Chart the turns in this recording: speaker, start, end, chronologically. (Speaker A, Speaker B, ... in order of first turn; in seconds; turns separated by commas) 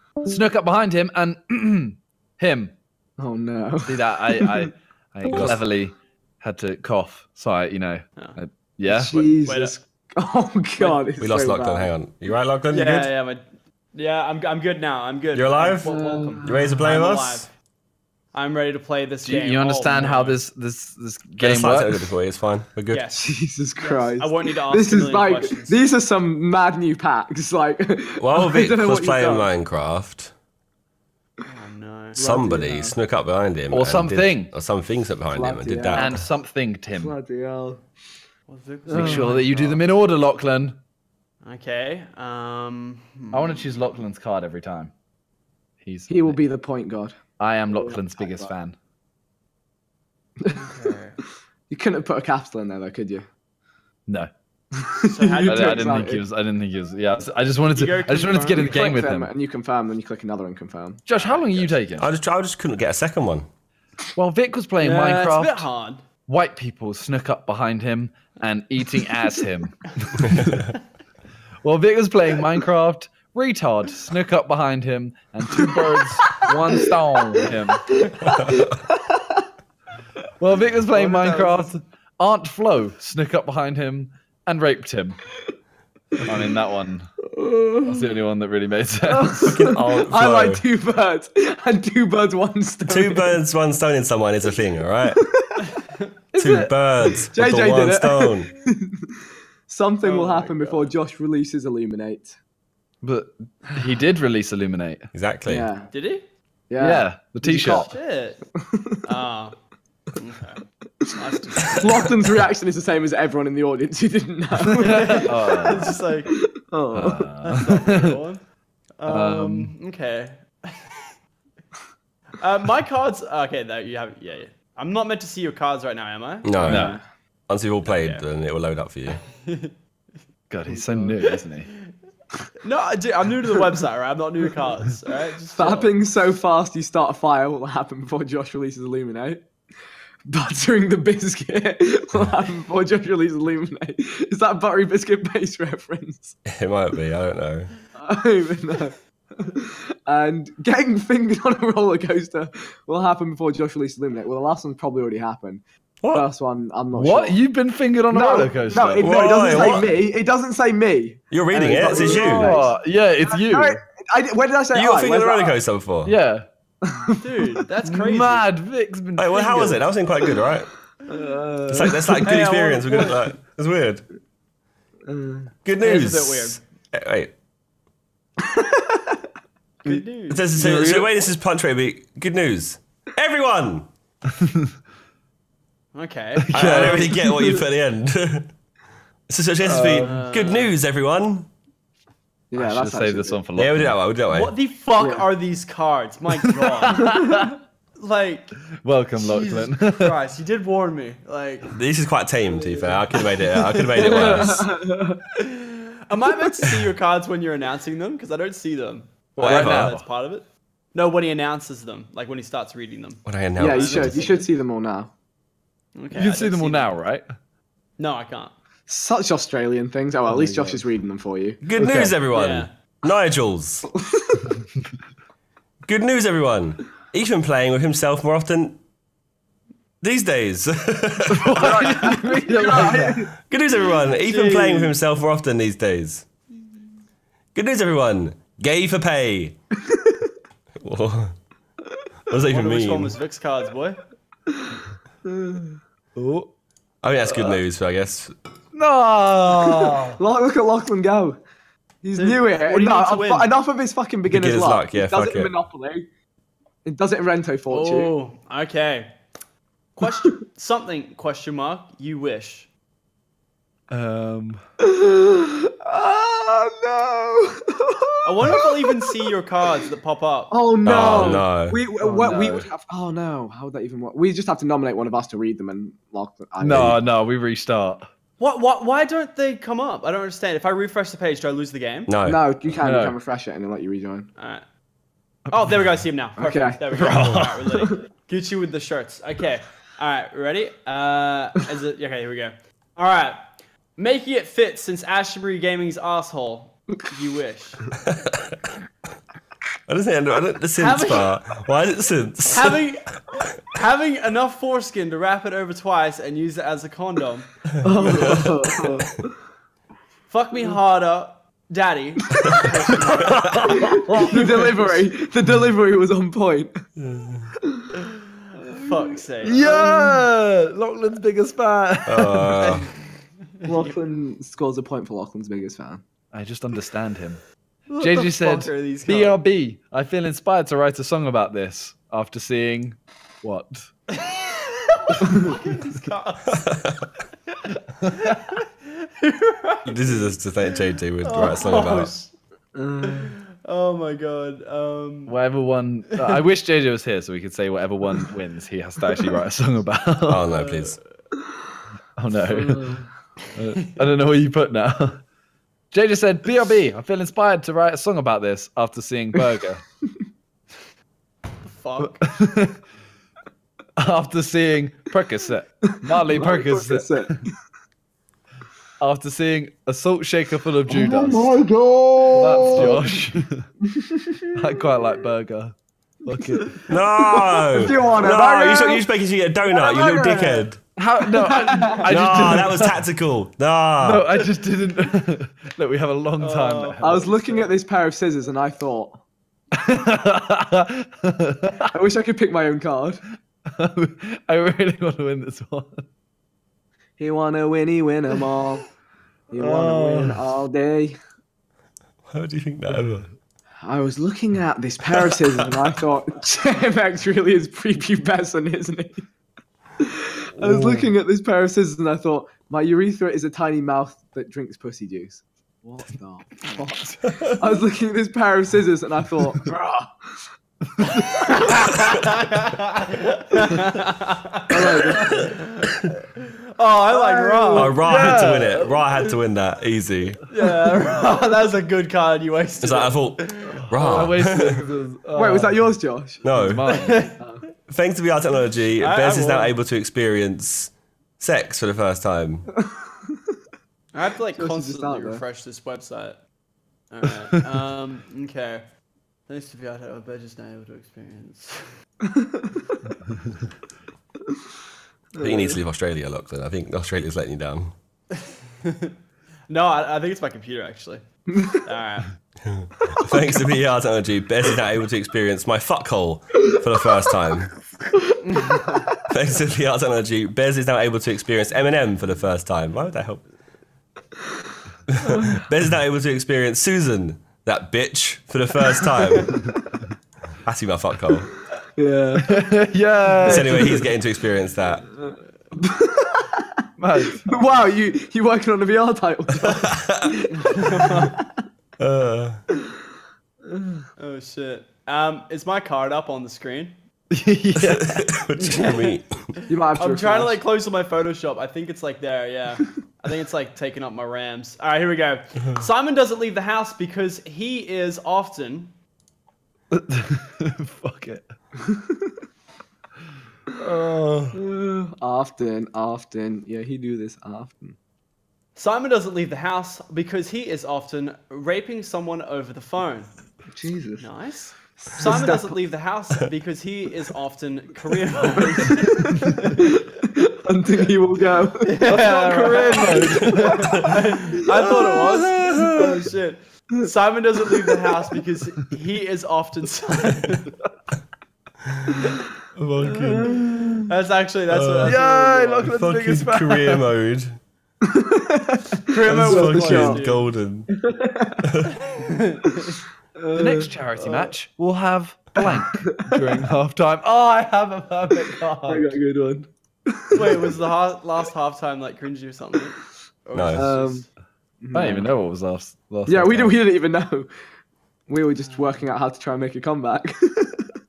Speaker A: 0.2-2.8, Speaker B: 3.2-4.7, Speaker A: 3.9-9.2, Speaker C: 5.3-5.7, Speaker B: 8.9-11.9, Speaker D: 9.0-9.8, Speaker D: 10.8-11.1, Speaker C: 11.2-13.1, Speaker D: 12.7-17.5, Speaker C: 15.3-17.5, Speaker B: 15.9-16.8, Speaker D: 18.3-20.4, Speaker A: 19.2-22.1, Speaker C: 21.4-23.1, Speaker D: 22.9-23.3, Speaker B: 23.2-29.5, Speaker D: 23.8-25.8, Speaker C: 28.2-30.3, Speaker D: 31.5-32.2, Speaker B: 32.2-33.0, Speaker C: 32.2-36.3, Speaker A: 33.7-34.5, Speaker B: 35.3-36.1, Speaker A: 35.9-37.1, Speaker B: 36.9-37.9, Speaker D: 38.5-39.8, Speaker B: 38.9-39.2, Speaker A: 38.9-40.8, Speaker D: 41.4-43.7, Speaker A: 43.3-44.9, Speaker A: 45.8-46.4, Speaker B: 46.1-47.2, Speaker A: 47.4-48.8, Speaker B: 47.7-48.5, Speaker D: 50.5-51.2, Speaker B: 51.7-53.3, Speaker B: 54.8-56.2, Speaker D: 55.0-56.1, Speaker A: 55.5-59.3, Speaker D: 57.7-58.8, Speaker B: 58.6-61.0, Speaker A: 61.1-62.1, Speaker D: 61.1-61.8, Speaker C: 62.0-63.5, Speaker A: 64.2-65.7, Speaker D: 64.8-66.0, Speaker A: 66.3-70.5, Speaker A: 71.6-77.9, Speaker B: 75.5-75.8, Speaker B: 76.7-77.5, Speaker C: 78.3-78.6, Speaker B: 78.4-79.4, Speaker A: 80.4-85.2, Speaker D: 80.9-81.6, Speaker A: 86.2-87.1, Speaker B: 87.3-88.1, Speaker A: 87.9-89.6, Speaker B: 89.1-93.4, Speaker C: 89.5-90.7, Speaker C: 92.9-95.2, Speaker B: 95.1-95.6, Speaker B: 96.3-99.1, Speaker C: 96.3-98.5, Speaker B: 99.7-102.4, Speaker D: 100.0-101.0, Speaker A: 103.0-105.1, Speaker C: 105.1-105.7, Speaker B: 105.5-105.9, Speaker D: 105.9-106.2, Speaker B: 106.7-107.9, Speaker A: 106.8-107.9, Speaker D: 107.5-108.4, Speaker B: 108.5-109.0, Speaker D: 109.0-109.5, Speaker D: 110.2-112.0, Speaker B: 111.8-117.3, Speaker D: 114.8-116.3, Speaker A: 115.1-115.9, Speaker A: 116.9-117.7, Speaker D: 117.4-118.4, Speaker D: 119.0-121.0, Speaker A: 119.1-119.8, Speaker D: 122.4-127.0, Speaker C: 126.4-126.9, Speaker A: 126.7-127.0, Speaker C: 127.5-129.2, Speaker D: 127.8-128.3, Speaker D: 129.1-129.7, Speaker A: 130.5-131.7, Speaker D: 130.7-131.2, Speaker D: 132.6-135.9, Speaker B: 135.6-139.4, Speaker B: 140.3-146.4, Speaker C: 146.5-147.7, Speaker B: 148.0-157.4, Speaker C: 156.0-156.3, Speaker A: 156.9-159.5, Speaker B: 158.1-165.6, Speaker C: 158.9-160.0, Speaker C: 161.3-162.6, Speaker A: 161.8-163.8, Speaker C: 164.7-166.2, Speaker A: 166.1-166.5, Speaker B: 166.8-167.2, Speaker D: 167.2-168.5, Speaker A: 167.8-169.8, Speaker C: 169.2-170.7, Speaker B: 171.1-172.2, Speaker C: 171.7-174.1, Speaker D: 172.2-173.3, Speaker B: 175.1-175.5, Speaker C: 175.7-177.3, Speaker D: 175.8-176.6, Speaker B: 178.5-179.2, Speaker D: 179.8-180.4, Speaker C: 180.3-183.9, Speaker A: 180.6-181.1, Speaker A: 184.4-184.7, Speaker D: 185.9-187.2, Speaker A: 186.4-187.6, Speaker C: 186.5-188.5, Speaker C: 189.3-191.5, Speaker A: 189.7-190.1, Speaker D: 189.9-190.8, Speaker B: 192.5-193.4, Speaker A: 192.5-194.0, Speaker C: 193.6-194.6, Speaker D: 194.3-197.2, Speaker B: 195.0-195.3, Speaker A: 196.9-197.5, Speaker D: 198.0-198.6, Speaker A: 198.8-200.1, Speaker D: 199.2-201.7, Speaker C: 201.7-204.7, Speaker D: 203.2-204.6, Speaker B: 204.0-205.2, Speaker D: 205.5-214.5, Speaker A: 209.4-210.1, Speaker C: 209.4-210.0, Speaker C: 213.2-214.4, Speaker B: 213.6-215.1, Speaker D: 215.9-216.9, Speaker A: 216.1-217.3, Speaker D: 218.0-218.6, Speaker B: 218.9-221.6, Speaker A: 220.3-220.8, Speaker C: 221.6-223.9, Speaker A: 221.8-222.2, Speaker D: 222.3-222.7, Speaker B: 223.9-224.6, Speaker C: 225.9-228.8, Speaker C: 230.0-232.1, Speaker A: 231.4-233.3, Speaker B: 231.6-233.3, Speaker C: 233.3-236.2, Speaker D: 234.2-235.0, Speaker C: 237.5-239.6, Speaker B: 239.9-240.3, Speaker C: 240.8-241.3, Speaker C: 242.3-243.2, Speaker D: 242.5-244.0, Speaker B: 245.3-245.8, Speaker A: 246.2-246.5, Speaker C: 247.0-248.3, Speaker A: 247.3-247.6, Speaker A: 248.7-250.2, Speaker B: 250.1-251.4, Speaker B: 252.0-256.1, Speaker D: 252.2-253.6, Speaker C: 254.3-255.5, Speaker B: 256.8-258.1, Speaker D: 257.7-259.1, Speaker D: 260.0-262.7, Speaker A: 263.9-264.6, Speaker B: 264.8-268.7, Speaker D: 268.2-270.6, Speaker B: 270.5-277.0, Speaker C: 270.8-271.8, Speaker A: 272.0-272.7, Speaker A: 276.6-278.1, Speaker D: 278.4-282.1, Speaker C: 282.1-282.5, Speaker B: 282.3-284.3, Speaker A: 282.8-283.1, Speaker D: 284.4-284.6, Speaker D: 285.5-293.4, Speaker B: 286.4-286.8, Speaker A: 286.9-287.7, Speaker C: 287.1-287.4, Speaker D: 294.0-297.9, Speaker C: 298.1-298.5, Speaker C: 299.9-302.8, Speaker D: 300.8-301.4, Speaker D: 302.5-303.1, Speaker D: 303.7-308.5, Speaker C: 307.8-308.5, Speaker B: 307.8-309.3, Speaker D: 310.3-313.4, Speaker A: 313.3-314.8, Speaker B: 313.8-316.7, Speaker D: 314.2-314.9, Speaker C: 317.0-317.5, Speaker B: 317.6-317.9, Speaker D: 318.7-319.8, Speaker A: 319.4-322.8, Speaker B: 319.6-320.0, Speaker C: 322.1-322.9, Speaker D: 322.6-322.9, Speaker D: 323.6-324.0, Speaker B: 323.7-326.0, Speaker A: 326.3-327.4, Speaker D: 327.9-329.4, Speaker A: 328.0-333.9, Speaker D: 334.2-336.6, Speaker C: 336.6-337.1, Speaker D: 338.0-340.3, Speaker C: 339.9-342.1, Speaker D: 341.2-342.3, Speaker B: 342.8-343.3, Speaker D: 343.1-345.3, Speaker A: 345.3-350.4, Speaker C: 350.3-351.0, Speaker D: 350.5-351.0, Speaker A: 352.2-352.9, Speaker B: 352.4-353.1, Speaker A: 353.6-355.2, Speaker A: 355.9-359.8, Speaker D: 361.6-362.3, Speaker A: 362.0-362.8, Speaker A: 364.0-367.4, Speaker B: 365.9-367.5, Speaker A: 369.0-371.5, Speaker B: 370.9-373.2, Speaker A: 372.3-373.7, Speaker B: 373.9-374.5, Speaker A: 374.6-376.7, Speaker C: 376.9-380.8, Speaker B: 377.1-379.1, Speaker B: 379.7-380.6, Speaker A: 381.0-383.0, Speaker B: 381.4-382.0, Speaker C: 382.0-384.3, Speaker A: 384.0-387.3, Speaker D: 386.4-387.7, Speaker B: 387.0-389.2, Speaker A: 389.8-391.8, Speaker B: 391.9-393.2, Speaker A: 393.7-396.0, Speaker B: 397.2-398.8, Speaker B: 399.5-401.1, Speaker A: 399.6-400.4, Speaker C: 402.3-403.3, Speaker B: 403.8-409.2, Speaker C: 405.2-405.7, Speaker B: 410.0-420.5, Speaker C: 410.6-411.1, Speaker C: 417.2-417.6, Speaker D: 421.5-426.1, Speaker B: 424.7-425.4, Speaker D: 426.8-428.2, Speaker B: 427.1-427.9, Speaker C: 427.7-430.4, Speaker A: 427.8-428.9, Speaker D: 430.5-434.3, Speaker C: 432.8-434.9, Speaker A: 433.8-436.0, Speaker B: 435.3-436.4, Speaker C: 436.4-436.9, Speaker A: 436.5-437.2, Speaker D: 436.9-437.4, Speaker B: 437.4-437.6, Speaker C: 437.9-442.7, Speaker D: 439.0-439.8, Speaker D: 444.1-446.4, Speaker B: 444.6-445.4, Speaker D: 447.1-448.9, Speaker D: 449.5-451.9, Speaker B: 452.3-452.7, Speaker B: 455.4-455.8, Speaker C: 455.4-457.9, Speaker D: 458.4-459.1, Speaker D: 459.7-462.4, Speaker C: 462.7-467.7, Speaker D: 468.6-468.9, Speaker C: 469.3-473.4, Speaker C: 475.1-479.6, Speaker C: 480.6-481.5, Speaker B: 482.0-482.6, Speaker A: 482.4-484.1, Speaker C: 483.4-485.1, Speaker B: 485.8-486.6, Speaker A: 487.0-487.5, Speaker B: 487.4-491.5, Speaker C: 489.6-490.3, Speaker D: 490.6-491.4, Speaker C: 492.0-492.6, Speaker B: 493.7-494.0, Speaker D: 494.2-496.9, Speaker A: 497.3-498.1, Speaker C: 497.8-499.5, Speaker D: 498.6-499.2, Speaker B: 499.7-500.6, Speaker D: 499.9-508.9, Speaker A: 509.9-511.5, Speaker A: 513.8-514.6, Speaker B: 514.5-518.0, Speaker D: 518.8-523.3, Speaker B: 523.7-524.3, Speaker D: 524.2-529.8, Speaker B: 525.0-525.8, Speaker B: 529.0-533.2, Speaker D: 531.9-540.7, Speaker A: 532.1-533.8, Speaker C: 535.2-536.1, Speaker C: 542.8-543.9, Speaker B: 543.1-543.6, Speaker D: 544.0-545.9, Speaker C: 544.7-545.2, Speaker A: 545.0-547.0, Speaker C: 545.8-547.6, Speaker B: 548.1-550.2, Speaker D: 549.1-550.5, Speaker C: 549.2-550.9, Speaker B: 550.9-551.6, Speaker D: 552.1-553.0, Speaker B: 553.4-553.9, Speaker A: 553.5-559.1, Speaker D: 554.2-554.5, Speaker B: 556.0-556.4, Speaker B: 558.9-560.6, Speaker D: 560.3-564.3, Speaker C: 563.5-563.9, Speaker B: 563.7-564.2, Speaker B: 564.8-565.3, Speaker A: 564.9-566.8, Speaker B: 566.3-567.5, Speaker B: 568.3-570.9, Speaker D: 568.6-569.0